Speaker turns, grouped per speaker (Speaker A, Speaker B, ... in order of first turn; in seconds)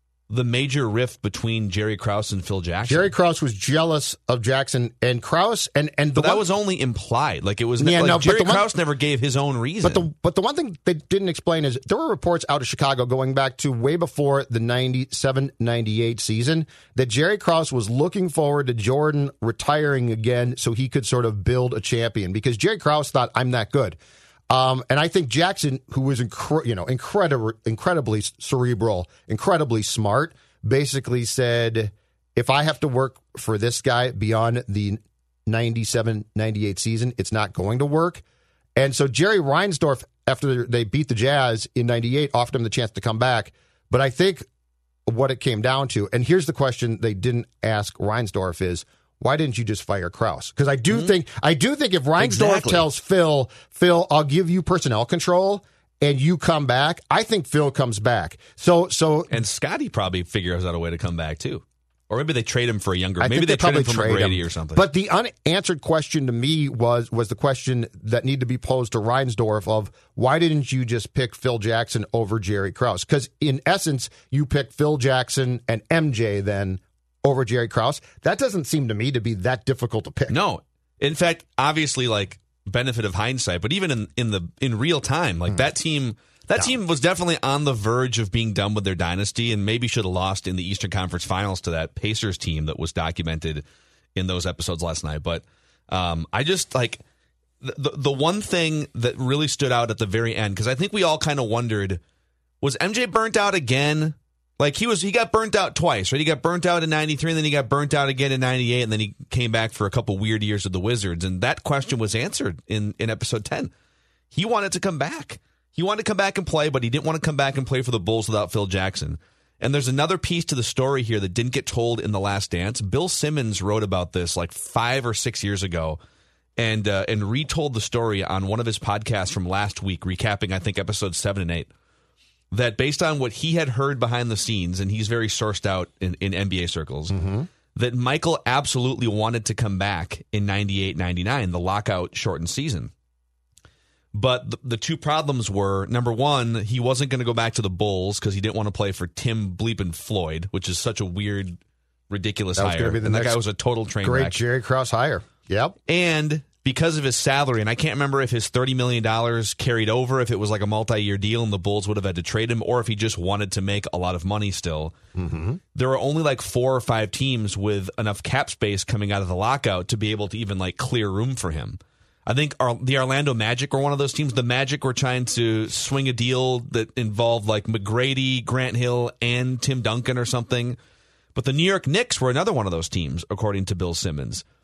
Speaker A: 0.3-3.1, 6.2-10.1, 52.2-52.9, 59.3-64.8, 80.3-97.0, 97.6-102.0, 102.6-113.7, 114.3-126.0, 126.6-131.7, 132.5-137.2, 137.7-142.9, 144.1-151.6, 152.1-154.4, 155.9-164.9, 165.7-180.8, 181.3-184.4
Speaker B: 2.9-6.5, 7.8-8.7, 9.8-24.0, 24.5-38.2, 38.8-44.5, 45.0-59.4, 63.2-80.3, 137.1-137.5, 152.6-153.4, 154.0-155.8, 165.1-165.6